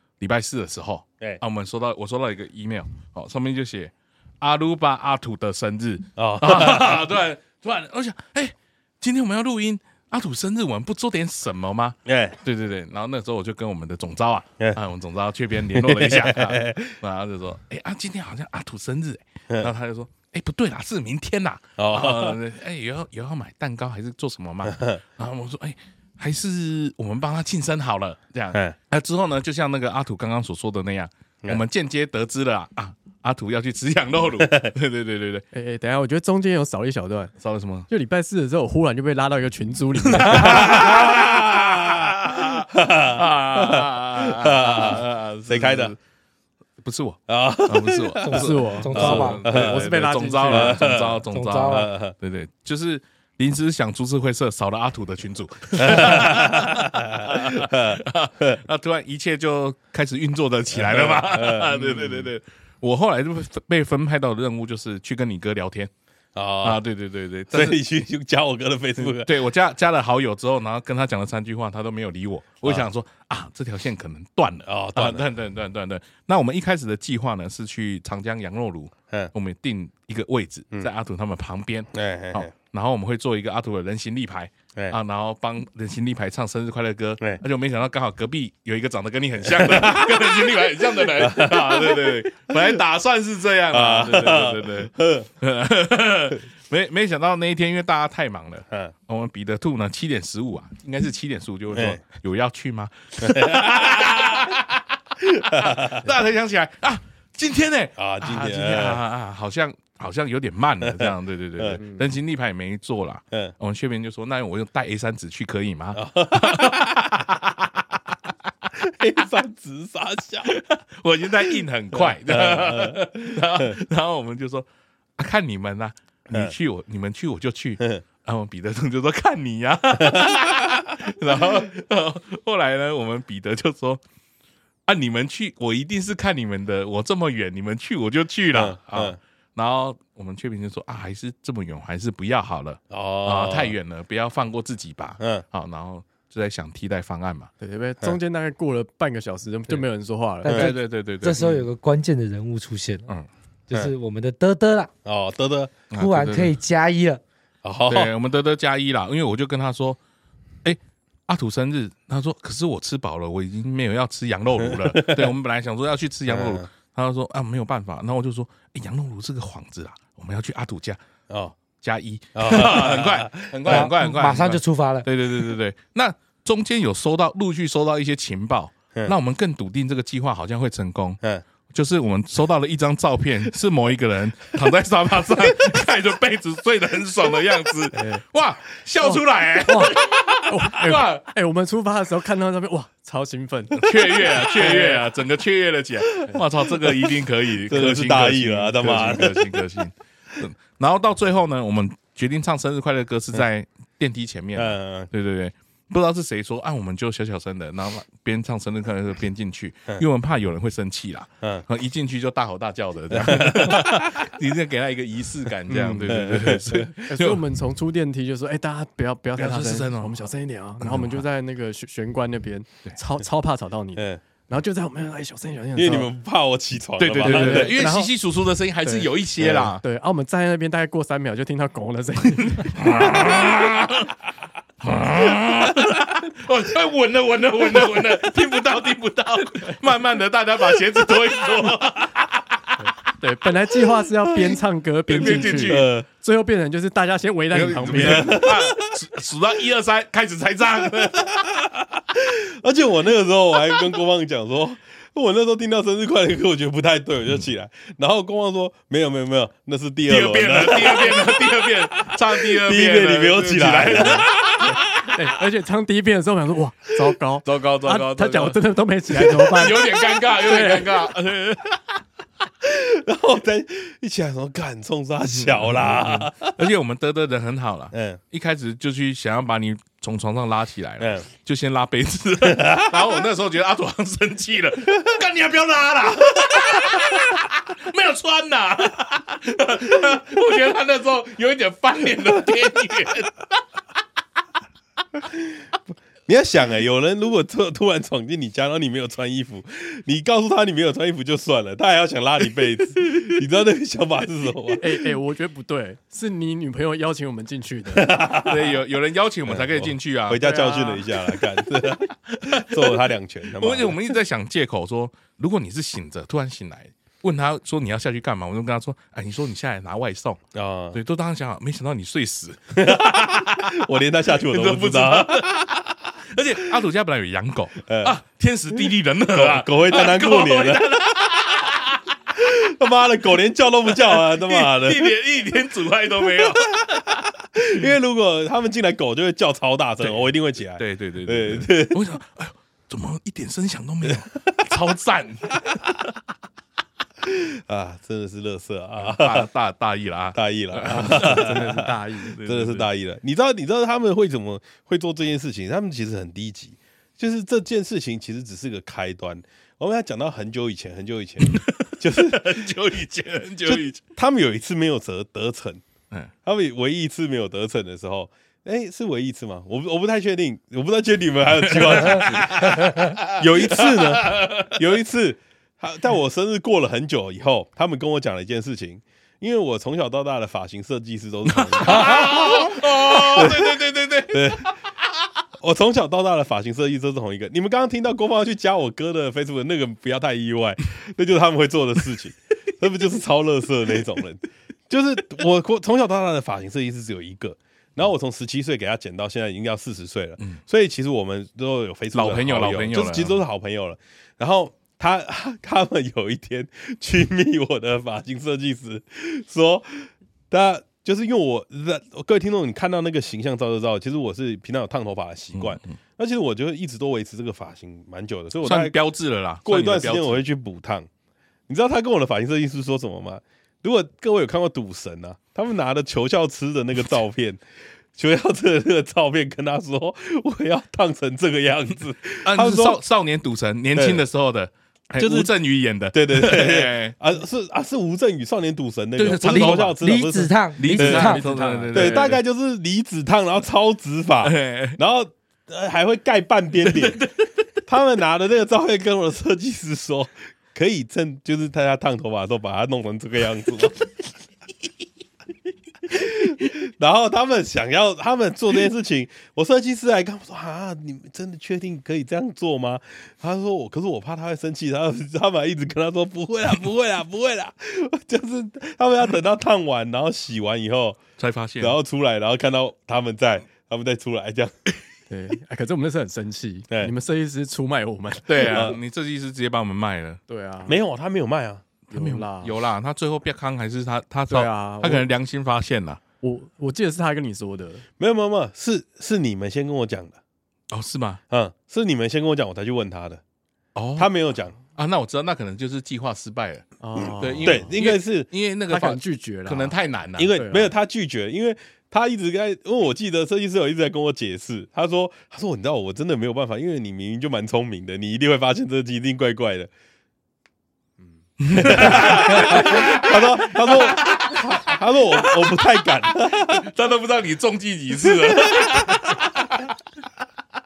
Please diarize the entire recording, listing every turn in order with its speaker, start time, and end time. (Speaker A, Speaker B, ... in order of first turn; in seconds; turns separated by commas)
Speaker A: 0.2-35.4, Speaker B: 6.2-7.0, Speaker B: 12.1-12.4, Speaker B: 15.7-16.9, Speaker B: 21.8-22.4, Speaker B: 24.6-25.0, Speaker B: 34.4-34.7, Speaker C: 35.5-37.3, Speaker A: 37.4-37.9, Speaker C: 37.9-40.9, Speaker A: 40.1-46.0, Speaker B: 40.3-45.9, Speaker A: 46.8-65.9, Speaker B: 47.3-49.9, Speaker D: 48.2-49.4, Speaker C: 48.3-50.8, Speaker B: 50.5-52.1, Speaker D: 51.3-51.9, Speaker B: 55.8-58.6, Speaker B: 60.7-62.3, Speaker B: 66.3-66.8, Speaker A: 66.6-67.8, Speaker B: 67.5-69.3, Speaker A: 69.1-104.8, Speaker B: 74.7-75.2, Speaker B: 81.9-82.5, Speaker B: 89.5-92.8, Speaker B: 93.7-95.3, Speaker B: 101.7-102.0, Speaker B: 103.2-104.5, Speaker B: 105.2-106.1, Speaker A: 105.6-117.8, Speaker B: 108.0-109.0, Speaker B: 110.8-111.8, Speaker B: 115.9-117.1, Speaker B: 118.7-120.5, Speaker A: 120.5-124.7, Speaker B: 121.9-123.8, Speaker A: 125.2-134.0, Speaker B: 130.0-130.4, Speaker A: 134.9-147.5, Speaker B: 138.5-139.2, Speaker B: 142.9-143.8, Speaker B: 145.2-145.4, Speaker C: 147.6-150.6, Speaker D: 150.4-153.1, Speaker B: 150.4-150.7, Speaker A: 150.5-151.5, Speaker D: 153.7-154.9, Speaker B: 155.0-155.8, Speaker A: 155.9-156.5, Speaker D: 155.9-157.2, Speaker B: 157.6-158.1, Speaker A: 157.9-160.0, Speaker A: 160.6-171.0, Speaker B: 164.6-165.3, Speaker B: 166.3-166.7, Speaker B: 171.3-171.6, Speaker A: 171.8-191.2, Speaker B: 172.3-173.9, Speaker D: 173.6-175.1, Speaker C: 187.9-188.2, Speaker C: 189.0-189.9, Speaker C: 190.5-194.9, Speaker A: 193.8-217.4, Speaker B: 196.7-199.6, Speaker B: 204.6-205.1, Speaker B: 213.1-214.2, Speaker C: 215.7-216.2, Speaker B: 216.0-216.9, Speaker C: 217.1-226.1, Speaker A: 219.3-221.2, Speaker B: 223.9-224.2, Speaker B: 225.7-227.8, Speaker A: 227.0-229.8, Speaker C: 227.2-228.1, Speaker C: 228.8-229.1, Speaker B: 229.4-229.7, Speaker C: 229.8-233.3, Speaker A: 232.7-234.1, Speaker A: 234.8-242.7, Speaker C: 242.8-248.5, Speaker A: 245.1-245.9, Speaker B: 245.2-246.1, Speaker A: 247.5-251.4, Speaker B: 247.9-249.0, Speaker B: 251.2-264.7, Speaker A: 260.1-264.8, Speaker C: 264.7-270.9, Speaker A: 267.4-271.8, Speaker B: 272.6-276.6, Speaker A: 275.3-293.4, Speaker B: 277.9-278.2, Speaker B: 281.0-281.3, Speaker B: 282.4-283.0, Speaker B: 296.3-305.1, Speaker C: 304.8-308.2, Speaker B: 307.9-308.7, Speaker A: 308.4-310.5, Speaker B: 309.5-314.1, Speaker C: 310.4-311.0, Speaker A: 311.9-313.0, Speaker A: 313.6-320.4, Speaker B: 320.5-321.0, Speaker A: 320.9-323.8, Speaker B: 322.7-325.8, Speaker A: 324.4-332.0, Speaker B: 327.8-328.2, Speaker B: 329.3-330.9, Speaker B: 332.3-335.1, Speaker A: 334.0-337.2, Speaker B: 336.4-336.8, Speaker B: 337.5-342.0, Speaker A: 340.0-345.8, Speaker B: 347.2-349.5, Speaker A: 349.0-352.9, Speaker B: 350.3-362.7, Speaker C: 350.9-352.4, Speaker A: 361.4-364.0, Speaker B: 363.6-365.8, Speaker B: 366.4-384.7, Speaker A: 371.6-374.8, Speaker A: 381.5-384.7, Speaker D: 381.9-382.7, Speaker B: 385.6-418.9, Speaker A: 402.1-403.4, Speaker A: 415.5-415.9, Speaker A: 418.6-420.4, Speaker B: 419.6-421.1, Speaker B: 421.7-427.6, Speaker B: 428.1-433.0, Speaker A: 432.4-437.1, Speaker B: 433.9-434.2, Speaker B: 435.2-435.5, Speaker B: 436.1-441.4, Speaker A: 439.2-440.0, Speaker D: 439.7-441.4, Speaker A: 440.8-442.4, Speaker C: 441.0-442.4, Speaker B: 441.9-447.2, Speaker A: 444.4-445.0, Speaker A: 446.8-447.3, Speaker B: 447.9-454.0, Speaker B: 456.1-471.2, Speaker A: 471.4-472.0, Speaker B: 471.8-474.7, Speaker C: 475.3-479.0, Speaker A: 478.5-480.4, Speaker B: 478.6-479.0, Speaker C: 480.5-480.9, Speaker B: 480.9-481.8, Speaker C: 482.1-482.8, Speaker A: 482.1-486.2, Speaker C: 484.5-485.2, Speaker C: 486.4-488.0, Speaker B: 488.2-490.4, Speaker A: 490.9-491.4, Speaker B: 491.5-493.4, Speaker A: 493.9-494.3, Speaker B: 494.2-494.8, Speaker A: 494.9-500.5, Speaker C: 497.0-497.9, Speaker B: 497.2-498.5, Speaker C: 498.9-499.9, Speaker B: 500.4-509.9, Speaker C: 500.5-500.9, Speaker A: 511.6-519.9, Speaker B: 511.7-516.9, Speaker B: 518.2-518.8